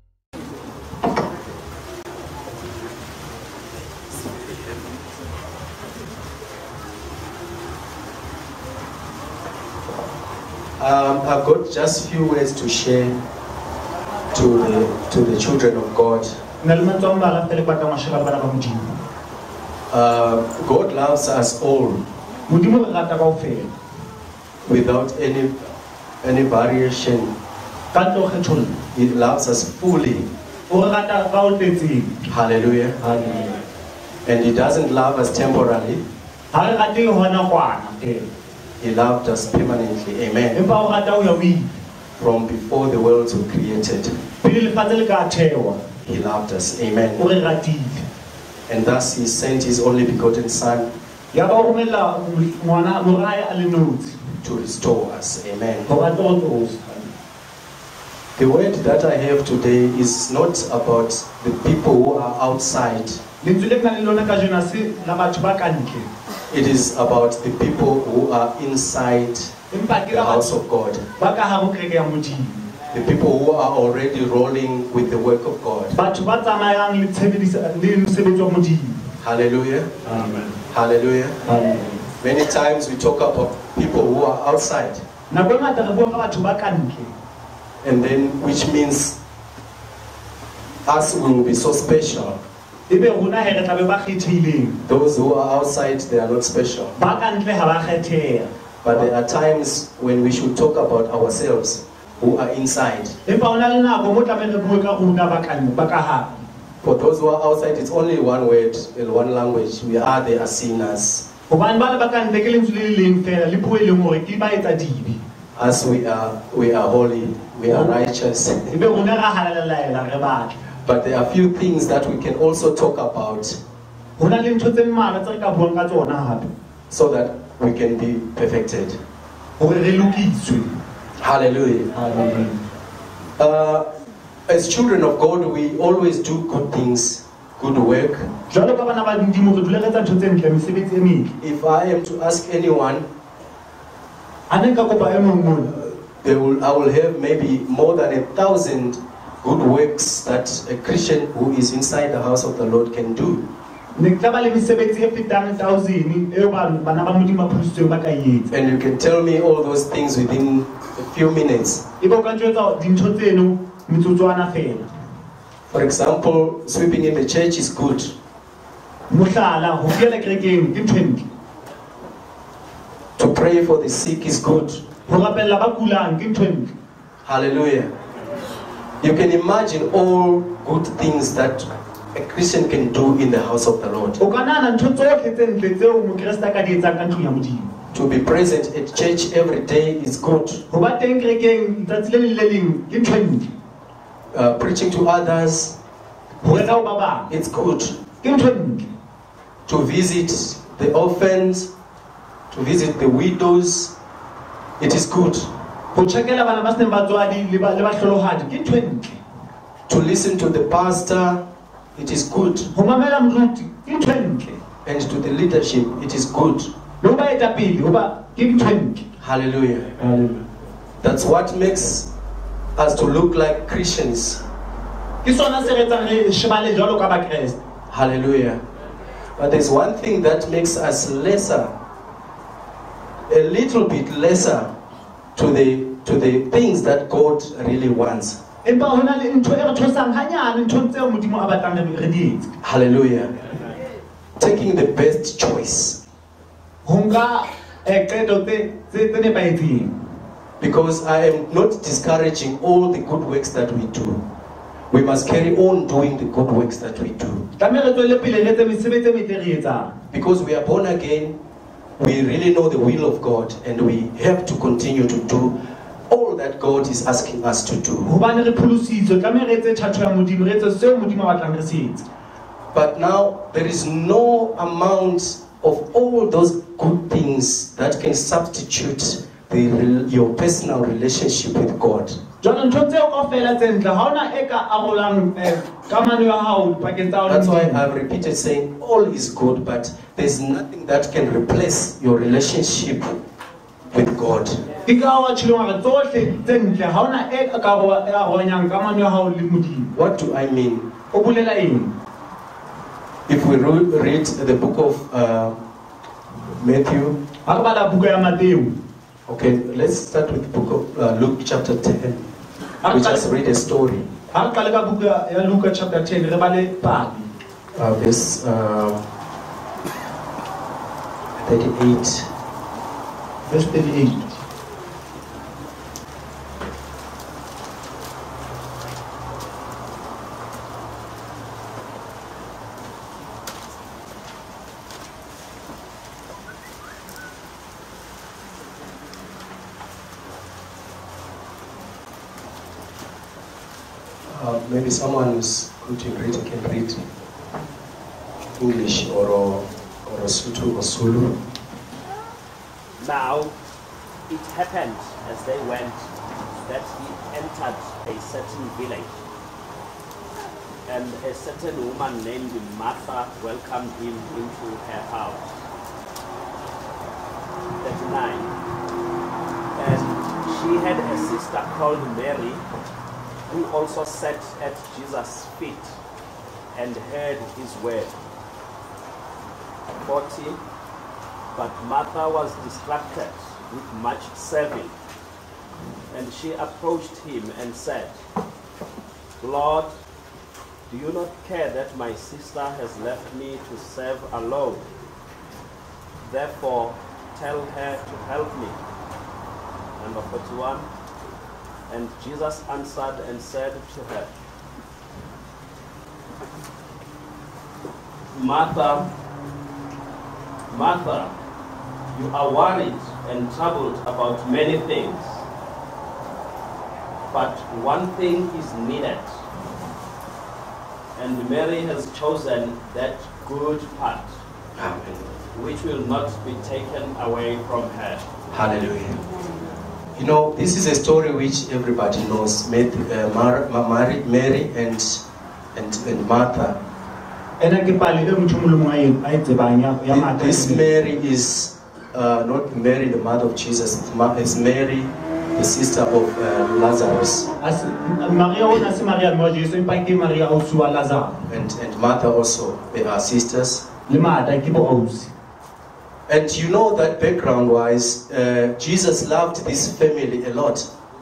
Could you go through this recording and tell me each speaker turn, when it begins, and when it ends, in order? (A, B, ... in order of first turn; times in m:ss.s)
0:10.8-0:13.2 A
0:14.3-0:16.3 A
0:16.6-0:19.0 B
0:19.9-0:22.0 A
0:22.5-0:23.7 B
0:24.7-0:25.6 A
0:26.2-0:27.3 A
0:27.9-0:28.8 B
0:28.9-0:30.3 A
0:30.7-0:32.3 B
0:32.3-0:33.0 A
0:33.0-0:33.6 B
0:34.2-0:36.0 A
0:36.5-0:38.3 B
0:38.8-0:40.6 A
0:40.5-0:41.7 B
0:42.2-0:44.2 A
0:44.4-0:45.8 B
0:46.0-0:47.3 A
0:47.2-0:48.0 B
0:48.7-0:50.9 A
0:51.3-0:54.2 B
0:54.4-0:55.9 A
0:55.9-0:57.2 B
0:58.4-1:03.2 A
1:03.4-1:06.1 B
1:06.5-1:09.6 A
1:09.7-1:10.6 B
1:10.1-1:11.0 A
1:11.2-1:12.7 B
1:12.9-1:16.0 A
1:15.9-1:19.1 B
1:19.2-1:20.0 A
1:20.0-1:20.6 B
1:20.6-1:21.5 A
1:21.4-1:22.1 B
1:22.2-1:25.0 A
1:25.3-1:27.1 B
1:27.8-1:29.2 A
1:30.9-1:32.4 A
1:32.9-1:34.8 B
1:34.9-1:36.9 A
1:37.0-1:39.0 B
1:38.8-1:43.2 A
1:43.3-1:46.4 B
1:46.8-1:51.3 A
1:51.5-1:55.2 B
1:55.6-1:58.8 A
1:57.7-1:57.9 B
1:58.7-2:00.6 B
2:00.8-2:03.6 A
2:04.2-2:06.5 B
2:06.9-2:09.0 A
2:09.6-2:10.7 B
2:11.2-2:11.9 A
2:12.0-2:12.6 B
2:13.4-2:13.9 A
2:14.5-2:18.3 A
2:18.5-2:21.3 B
2:21.4-2:23.1 A
2:24.5-2:25.8 B
2:25.8-2:33.4 A
2:34.0-2:38.5 B
2:38.5-2:41.8 A
2:42.0-2:44.9 B
2:45.7-2:48.2 A
2:49.1-2:51.2 B
2:53.2-2:54.8 A
2:55.1-2:56.7 B
2:57.2-2:57.9 A
2:59.0-3:04.2 A
3:04.2-3:07.7 B
3:07.9-3:10.6 A
3:10.7-3:13.5 B
3:14.3-3:15.8 A
3:16.4-3:17.3 B
3:17.3-3:18.0 A
3:18.2-3:18.9 B
3:19.7-3:21.7 A
3:22.5-3:23.9 A
3:24.8-3:25.5 A
3:25.9-3:29.2 B
3:29.9-3:32.7 A
3:32.7-3:34.6 B
3:34.8-3:36.7 A
3:37.0-3:39.1 B
3:39.2-3:39.9 A
3:40.0-3:40.4 B
3:41.0-3:42.1 A
3:42.8-3:44.4 A
3:45.2-3:47.6 B
3:47.9-3:48.6 A
3:49.4-3:51.7 A
3:53.3-3:54.7 A
3:55.4-3:58.4 A
3:58.6-4:02.5 B
4:02.6-4:03.3 A
4:04.4-4:06.0 A
4:06.8-4:09.9 B
4:10.6-4:14.2 A
4:14.9-4:17.5 A
4:17.6-4:19.9 B
4:20.1-4:21.4 A
4:22.0-4:25.6 A
4:26.1-4:28.1 A
4:28.0-4:32.0 B
4:32.7-4:42.2 A
4:42.4-4:47.8 B
4:47.3-4:53.2 A
4:53.9-4:54.6 A
4:54.9-4:59.9 B
5:00.0-5:00.9 A
5:01.1-5:01.9 B
5:03.3-5:05.6 A
5:06.6-5:07.2 A
5:07.5-5:08.7 B
5:09.3-5:12.2 A
5:12.8-5:13.3 B
5:12.9-5:14.1 A
5:14.3-5:17.3 B
5:17.8-5:19.0 A
5:21.4-5:22.3 A
5:23.5-5:24.4 B
5:44.3-5:47.1 A
5:48.6-5:51.4 A
5:53.0-5:53.5 C
5:54.3-5:56.1 C
5:56.6-5:59.1 C
6:00.9-6:05.6 C
6:07.8-6:08.5 C
6:09.8-6:12.6 C
6:13.5-6:15.9 C
6:16.7-6:18.2 C
6:20.0-6:20.6 C
6:21.5-6:24.9 C
6:26.1-6:28.2 C
6:29.4-6:29.9 C
6:30.9-6:34.8 C
6:36.2-6:38.8 C
6:40.0-6:40.9 C
6:41.9-6:44.3 C
6:48.3-6:49.1 C
6:50.7-6:51.3 C
6:52.1-6:55.4 C
6:57.3-6:59.4 C
7:01.2-7:04.4 C
7:04.8-7:05.3 A
7:05.5-7:08.3 C
7:08.5-7:09.2 A
7:10.2-7:15.2 A
7:15.8-7:16.8 A
7:17.6-7:20.8 B
7:20.1-7:27.5 A
7:27.6-7:31.4 B
7:31.5-7:33.8 A
7:34.1-7:35.3 B
7:36.3-7:40.9 A